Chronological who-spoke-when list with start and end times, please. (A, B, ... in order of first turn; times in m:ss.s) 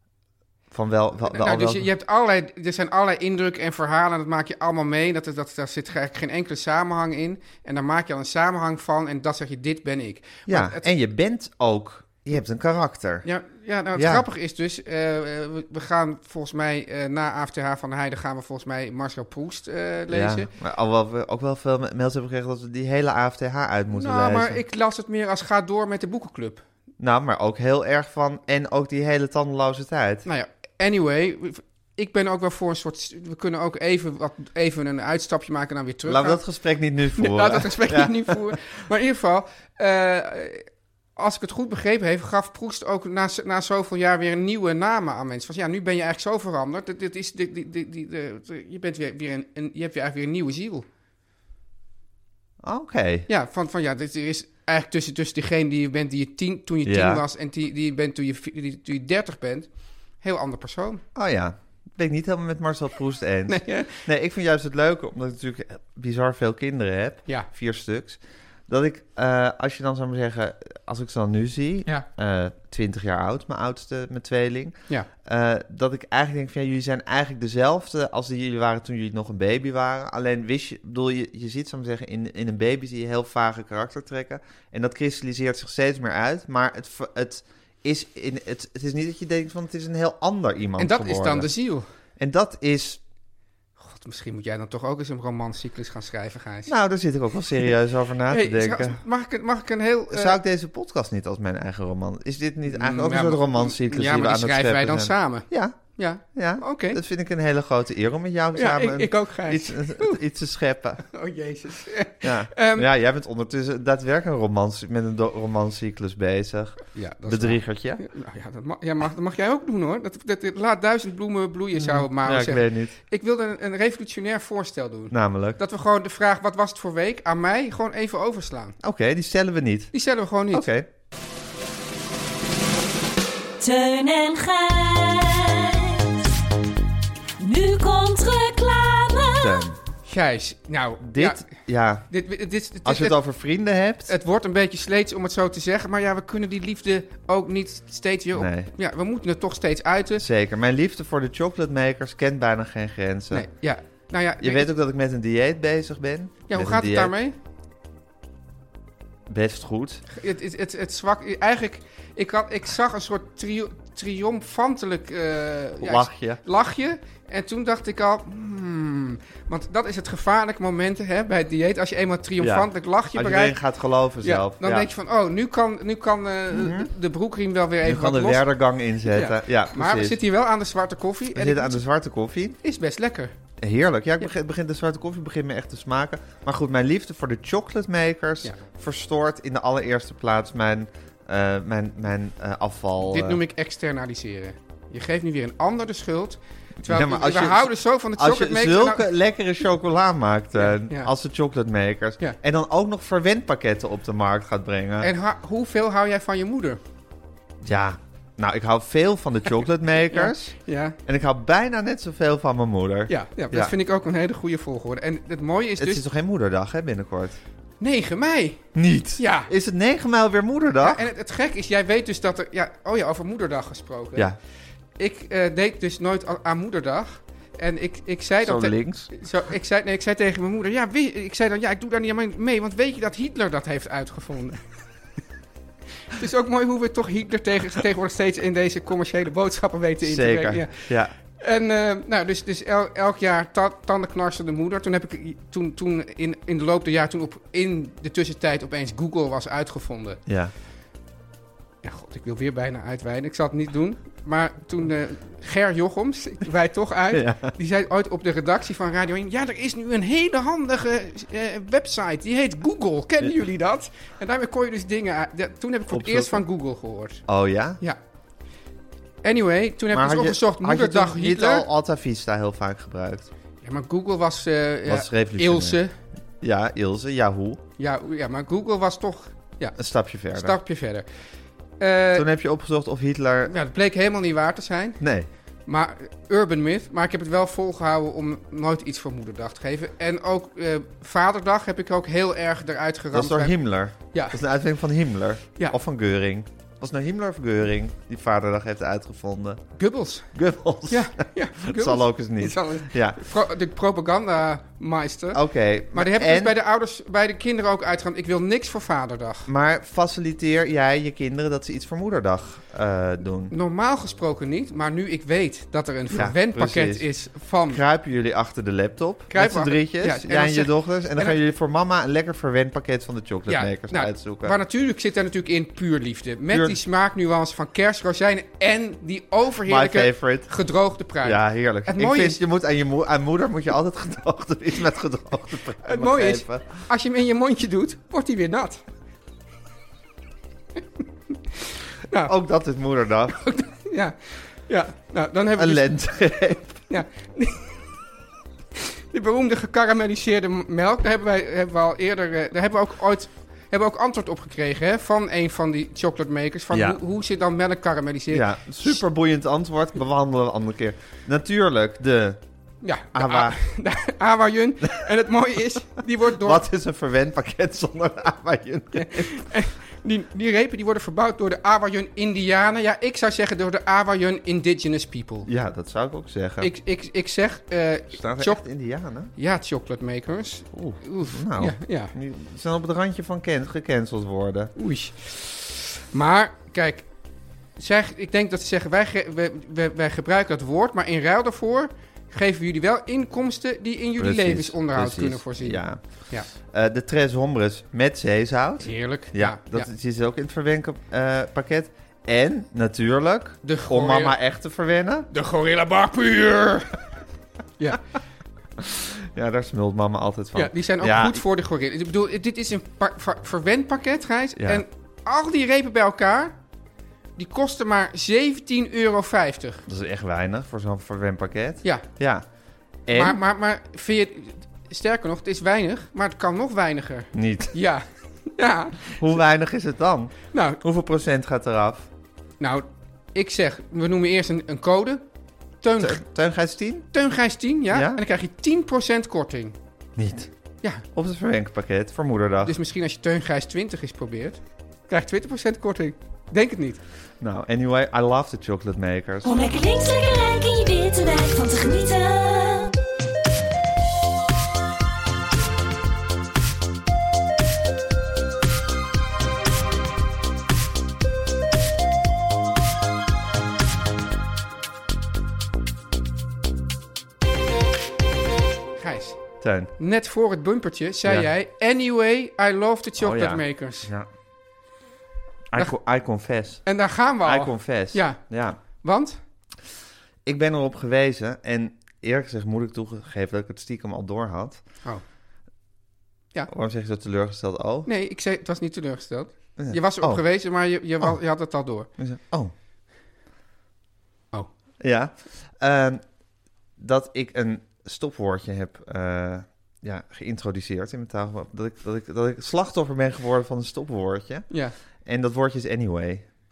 0:00.7-0:01.9 A
0:01.3-0:10.9 B
0:10.5-0:13.3 A
0:13.2-0:20.5 B
0:14.0-0:14.2 A
0:20.1-0:24.6 A
0:23.9-0:26.6 B
0:27.0-0:30.3 A
0:30.3-0:36.4 B
0:36.0-0:38.5 A
0:37.2-0:50.9 B
0:52.6-0:53.3 A
0:53.3-0:59.7 B
0:56.8-0:57.2 A
1:00.2-1:01.0 B
1:01.2-1:31.5 A
1:03.5-1:04.0 B
1:30.8-1:31.9 B
1:32.2-1:33.0 A
1:33.8-1:36.7 B
1:36.7-1:39.0 A
1:38.3-1:40.4 B
1:40.1-1:45.8 A
1:42.7-1:47.0 B
1:46.3-1:51.0 A
1:48.5-1:50.2 B
1:51.1-1:52.9 B
1:52.2-1:58.0 A
1:57.0-2:08.8 B
2:01.7-2:02.9 A
2:05.1-2:05.6 A
2:08.8-2:09.9 A
2:09.9-2:10.7 B
2:10.5-2:10.9 A
2:13.6-2:16.3 C
2:17.4-2:19.7 C
2:19.4-2:19.8 A
2:20.1-2:21.5 B
2:21.0-2:22.1 A
2:22.1-2:23.2 B
2:22.8-2:24.1 A
2:24.1-2:30.2 B
2:28.3-2:28.7 A
2:30.2-2:33.5 A
2:33.3-2:34.7 B
2:34.4-2:37.1 A
2:36.5-2:37.4 B
2:39.3-2:40.0 A
2:40.1-2:53.6 B
2:45.8-2:46.4 A
2:52.4-2:54.9 A
2:54.2-2:58.4 B
2:56.5-2:56.9 A
2:57.8-3:00.2 A
2:59.1-3:01.8 B
3:01.3-3:02.6 A
3:02.6-3:03.3 B
3:03.6-3:13.4 A
3:13.0-3:19.1 B
3:16.8-3:25.1 A
3:20.6-3:21.1 B
3:25.0-3:26.8 B
3:27.6-3:30.6 A
3:30.1-3:31.0 B
3:31.1-3:33.8 A
3:33.1-3:36.0 B
3:35.8-3:37.4 A
3:37.8-3:38.6 B
3:38.8-3:41.1 A
3:39.2-3:39.5 B
3:40.8-3:44.3 B
3:45.0-3:54.6 B
3:48.4-3:49.1 A
3:56.1-4:10.2 B
4:00.0-4:01.1 A
4:10.3-4:10.5 A
4:11.8-4:27.2 B
4:17.1-4:17.5 A
4:25.9-4:26.4 A
4:27.3-4:27.8 A
4:29.2-4:31.7 B
4:29.9-4:33.3 A
4:33.6-4:36.0 B
4:34.9-4:35.8 A
4:36.4-4:37.6 A
4:37.8-4:39.8 B
4:39.8-4:40.6 A
4:40.3-4:41.1 B
4:41.8-4:42.3 B
4:42.1-4:43.5 A
4:43.5-4:45.0 B
4:45.0-4:45.3 A
4:45.7-4:53.6 B
4:53.1-4:59.6 A
4:54.1-4:54.4 B
4:59.8-5:00.3 B
5:00.3-5:03.2 A
5:00.9-5:05.4 B
5:05.3-5:06.6 A
5:05.9-5:09.5 B
5:09.5-5:13.5 A
5:13.5-5:17.8 B
5:16.1-5:17.1 A
5:17.7-5:24.6 A
5:19.3-5:21.4 B
5:23.5-5:32.4 B
5:26.5-5:26.8 A
5:29.6-5:30.5 A
5:31.2-5:36.7 A
5:35.8-5:38.8 B
5:41.6-5:42.3 B
5:42.2-5:43.4 A
5:43.3-5:45.9 B
5:45.6-5:46.8 A
5:46.9-5:47.8 B
5:48.8-5:59.0 B
5:56.7-5:57.0 A
5:58.3-6:02.4 A
6:02.8-6:06.6 B
6:03.1-6:03.6 A
6:06.4-6:09.3 A
6:08.9-6:15.5 B
6:15.5-6:16.7 A
6:16.6-6:18.6 B
6:18.1-6:19.3 A
6:19.4-6:22.1 B
6:20.7-6:24.7 A
6:24.8-6:27.1 B
6:27.8-6:36.5 B
6:34.2-6:45.3 A
6:38.8-6:39.9 B
6:43.6-6:44.4 B
6:45.3-6:47.0 B
6:48.8-6:51.4 A
6:50.6-6:56.6 B
6:54.6-6:54.8 A
6:57.4-6:59.8 B
6:59.9-7:02.4 A
7:03.1-7:03.4 A
7:03.1-7:09.2 B
7:07.3-7:07.7 A
7:09.2-7:12.1 A
7:10.5-7:10.8 B
7:12.6-7:15.2 B
7:15.8-7:16.2 B
7:16.0-7:17.1 A
7:17.1-7:19.8 B
7:17.9-7:18.2 A
7:20.2-7:20.5 A
7:21.1-7:22.8 A
7:22.6-7:27.0 B
7:27.4-7:29.5 A
7:29.4-7:33.0 C
7:49.0-7:54.1 B
7:49.6-7:49.9 A
7:53.2-7:54.3 A
7:55.7-7:56.8 A
7:56.9-7:58.4 B
7:57.4-7:58.8 A
7:59.0-7:59.4 B
8:00.4-8:04.8 A
8:06.7-8:08.1 A
8:08.1-8:12.1 B
8:09.8-8:10.4 A
8:12.2-8:12.7 A
8:15.0-8:16.2 A
8:17.0-8:24.7 A
8:24.7-8:25.0 B
8:25.2-8:26.5 A